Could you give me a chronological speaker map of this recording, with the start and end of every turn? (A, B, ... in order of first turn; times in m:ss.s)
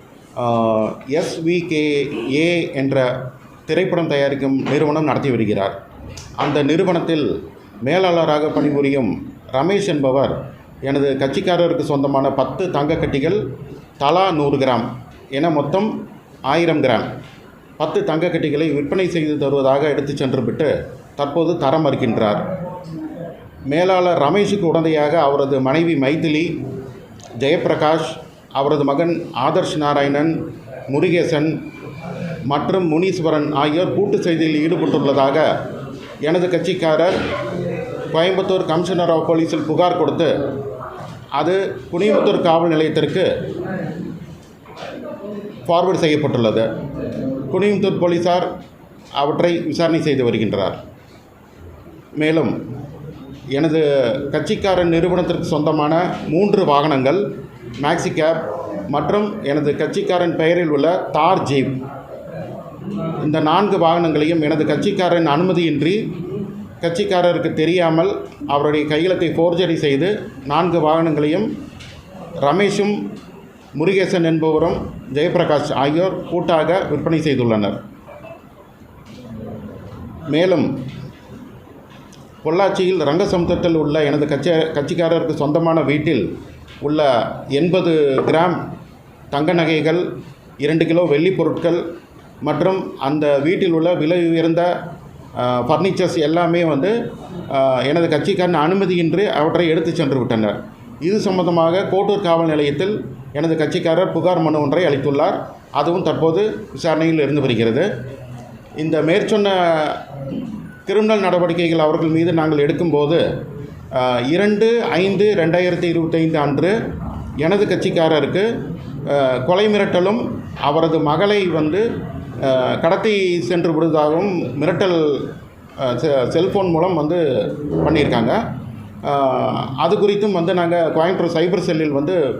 0:00.4-0:03.1 A
0:03.7-0:05.7 A
0:06.4-0:07.3 A
0:07.8-0:13.4 A
0:14.0-0:15.9 A
0:16.5-0:17.1 A
0:17.8-0:22.4 A
0:23.7-0:26.5 A
0:27.4-0:30.4 A
0:30.9-0:31.6 A
0:32.5-0:35.5 A
0:36.2-0:37.1 A
0:38.1-0:40.4 A
0:41.3-0:43.3 A
0:45.6-0:46.7 A
0:47.5-0:48.5 A
0:49.2-0:50.8 A
0:52.1-0:52.6 A
0:53.5-0:57.2 A
0:57.8-1:01.8 A
1:03.2-1:06.0 A
1:06.8-1:11.5 A
1:12.4-1:13.0 A
1:13.7-1:17.8 A
1:20.2-1:20.7 A
1:22.4-1:26.3 A
1:26.8-1:28.6 A
1:29.3-1:30.0 A
1:30.6-1:31.8 A
1:32.4-1:34.7 A
1:35.4-1:36.9 A
1:37.5-1:47.9 A
1:48.8-1:50.0 A
1:50.9-1:53.2 A
1:53.9-1:56.7 A
1:57.4-1:58.5 A
1:59.0-2:01.8 A
2:02.4-2:08.4 A
2:09.0-2:12.2 A